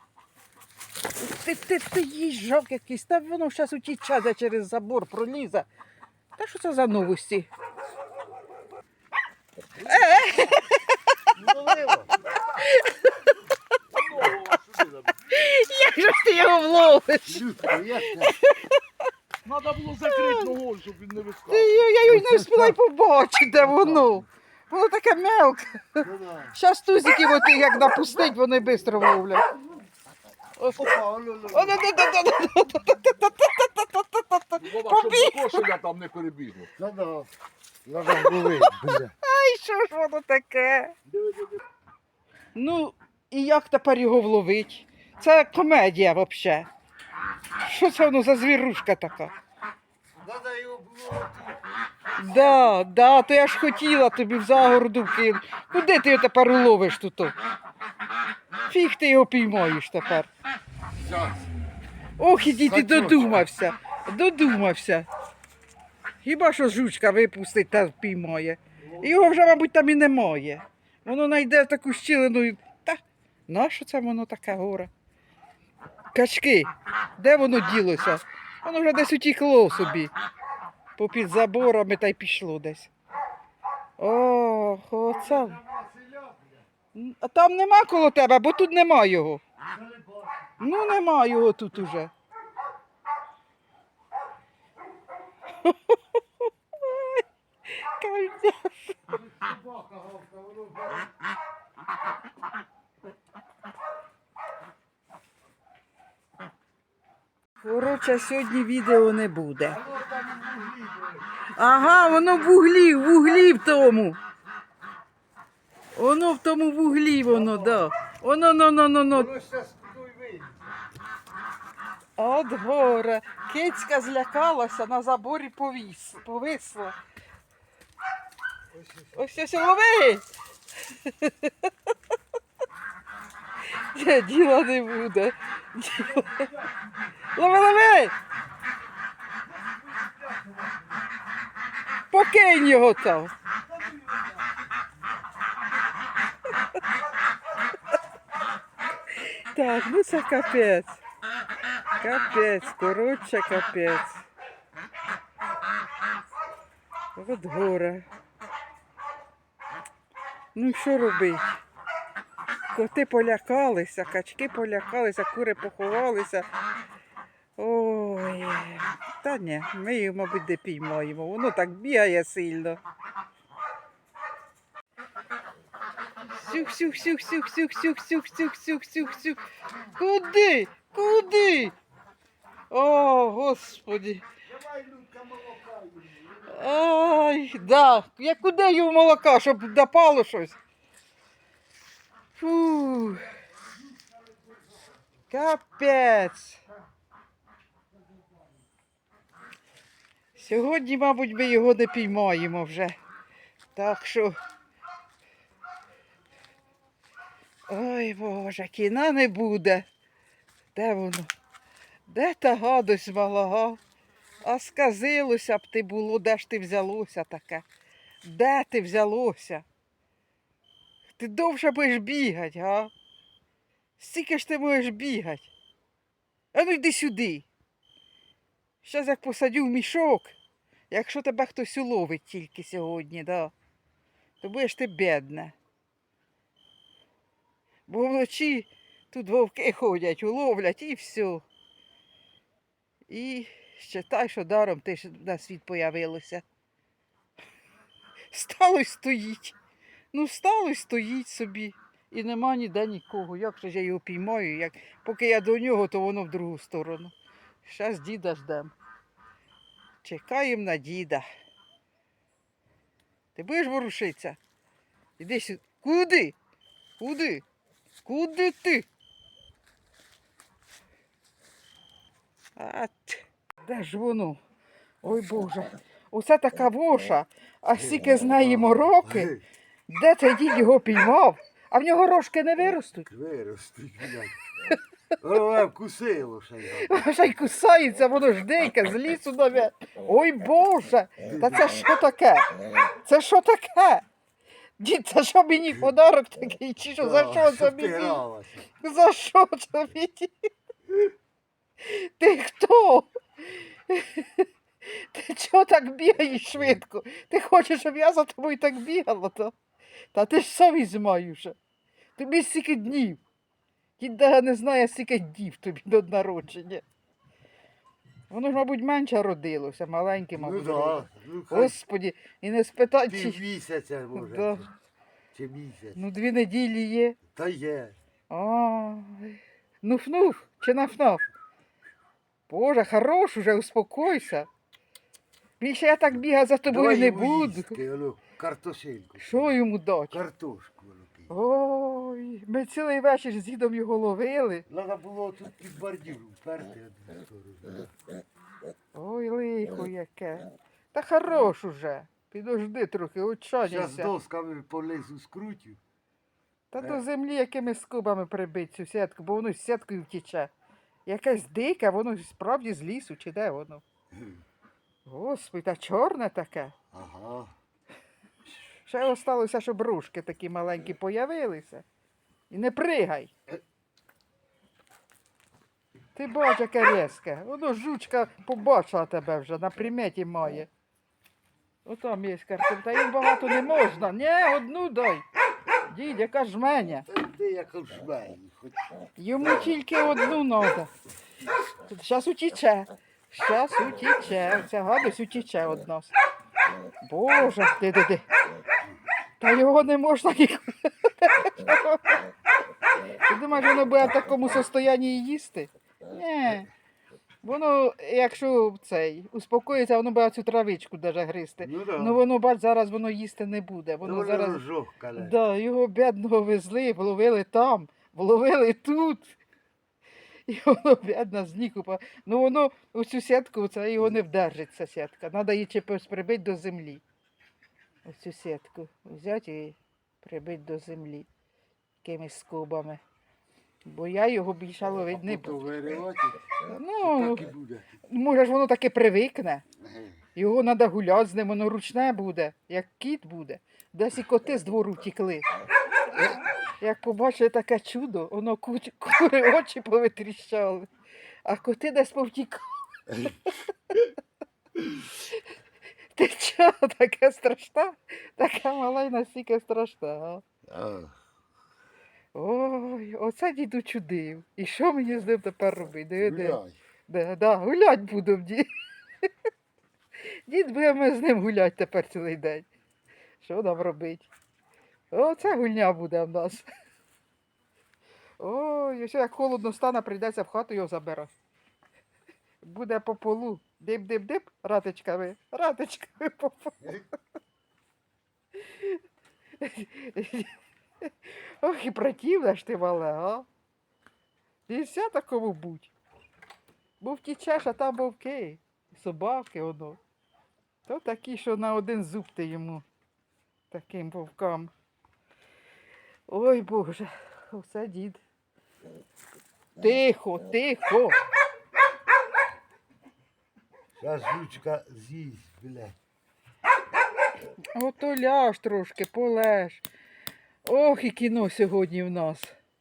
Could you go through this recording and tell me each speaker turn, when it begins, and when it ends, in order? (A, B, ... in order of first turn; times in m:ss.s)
0:01.2-0:05.7 A
0:06.4-0:07.5 A
0:09.8-0:11.3 A
0:11.3-0:12.1 B
0:12.6-0:13.4 A
0:13.9-0:15.2 C
0:15.2-0:17.4 A
0:17.2-0:18.3 B
0:18.1-0:18.8 A
0:19.4-0:21.7 C
0:20.0-0:20.5 A
0:21.4-0:29.4 A
0:22.0-0:22.8 B
0:23.7-0:24.2 B
0:26.0-0:26.6 B
0:30.6-0:30.9 A
0:30.7-0:31.8 B
0:31.5-0:35.7 A
0:34.6-0:36.7 C
0:36.7-0:37.3 B
0:37.8-0:39.1 B
0:38.1-0:40.9 A
0:41.1-0:41.6 B
0:42.5-0:46.7 A
0:47.6-0:49.3 A
0:50.2-0:51.6 B
0:52.2-0:57.3 A
0:52.3-0:52.6 B
0:58.7-1:00.3 A
1:01.0-1:01.5 B
1:02.2-1:05.1 A
1:02.4-1:03.4 B
1:06.2-1:14.9 A
1:16.1-1:20.1 A
1:21.0-1:22.9 A
1:24.0-1:25.6 A
1:25.1-1:26.6 B
1:26.9-1:29.4 A
1:29.6-1:30.5 B
1:30.6-1:32.1 A
1:35.6-1:39.1 A
1:39.1-1:41.1 B
1:47.6-1:49.8 A
1:49.6-1:51.5 B
1:51.5-1:54.2 A
1:55.9-1:59.3 A
1:57.2-1:57.9 B
1:59.1-2:00.6 B
2:02.2-2:07.0 A
2:08.7-2:09.4 B
2:09.1-2:10.2 A
2:10.9-2:11.7 A
2:13.7-2:16.5 A
2:17.3-2:18.1 A
2:22.1-2:23.3 A
2:29.2-2:31.0 A
2:32.0-2:34.2 A
2:37.1-2:38.0 A
2:40.5-2:41.6 A
2:42.7-2:46.5 A
2:47.6-2:52.8 A
2:56.3-2:59.4 A
2:59.9-3:01.7 A
3:02.7-3:04.2 A
3:04.5-3:06.3 B
3:06.4-3:10.6 A
3:12.4-3:13.3 A
3:15.3-3:16.6 A
3:20.3-3:23.0 A
3:23.7-3:24.3 A
3:27.7-3:29.9 A
3:30.7-3:31.3 A
3:32.1-3:33.8 A
3:34.4-3:37.6 A
3:38.2-3:39.6 A
3:41.2-3:42.9 A
3:44.0-3:45.5 A
3:46.5-3:47.5 A
3:48.8-3:50.3 A
3:50.9-3:53.5 A
3:54.4-3:55.5 A
3:57.9-4:01.4 A
4:03.1-4:06.4 A
4:08.3-4:09.5 A
4:10.1-4:18.7 A
4:20.0-4:21.2 A
4:23.3-4:24.4 A
4:25.2-4:26.4 A
4:27.0-4:27.4 A
4:28.0-4:28.9 A
4:32.6-4:34.4 A
4:35.0-4:39.3 A
4:37.7-4:39.4 B
4:39.9-4:43.1 A
4:43.1-4:44.4 B
4:45.2-4:47.0 B
4:46.8-4:54.0 A
4:51.2-4:51.7 B
4:54.8-4:58.2 A
4:57.0-4:58.7 B
4:58.7-5:00.3 A
5:01.8-5:09.5 A
5:10.1-5:11.6 A
5:12.2-5:13.2 A
5:14.0-5:16.8 A
5:18.3-5:23.4 A
5:20.3-5:21.8 B
5:23.1-5:24.7 B
5:24.2-5:24.7 A
5:25.3-5:26.0 B
5:25.9-5:27.2 A
5:27.3-5:28.0 B
5:28.3-5:31.2 A
5:32.5-5:34.5 A
5:35.6-5:37.8 A
5:36.7-5:39.5 B
5:39.2-5:40.2 A
5:40.1-5:41.3 B
5:41.3-5:44.6 A
5:44.7-5:47.9 B
5:48.9-5:54.1 A
5:53.6-5:55.8 B
5:56.7-6:00.5 A
6:01.0-6:03.8 A
6:04.1-6:04.4 B
6:05.0-6:06.7 A
6:06.9-6:07.5 B
6:08.8-6:11.8 A
6:12.5-6:13.3 A
6:16.1-6:20.7 A
6:21.8-6:25.2 A
6:25.9-6:27.0 A
6:27.1-6:29.7 B
6:29.2-6:30.9 A
6:31.8-6:36.1 A
6:37.0-6:38.2 A
6:39.4-6:42.2 A
6:43.2-6:46.7 A
6:47.4-6:54.6 A
6:51.6-6:52.2 B
6:54.0-6:55.4 B
6:55.1-6:59.4 A
7:00.5-7:07.0 A
7:08.0-7:11.3 A
7:12.0-7:13.0 A
7:13.8-7:15.6 A
7:15.1-7:16.5 B
7:16.6-7:17.5 A
7:17.0-7:17.9 B
7:18.1-7:19.6 A
7:19.8-7:20.2 B
7:20.3-7:25.4 A
7:26.8-7:30.9 A
7:31.4-7:34.1 A
7:34.8-7:35.4 A
7:36.1-7:40.4 A
7:40.6-7:41.2 B
7:42.3-7:48.7 A
7:46.2-7:46.8 B
7:50.3-7:52.7 A
7:53.4-7:54.3 A
7:55.1-7:56.7 A
7:58.4-8:01.3 A
8:02.6-8:06.9 A
8:08.6-8:09.0 A
8:09.6-8:13.5 A
8:14.7-8:15.9 A
8:17.0-8:20.0 A
8:20.8-8:22.8 A
8:23.7-8:24.7 A
8:26.3-8:28.2 A
8:29.8-8:31.2 A
8:34.0-8:36.0 B
8:37.7-8:39.8 A
8:40.6-8:42.5 A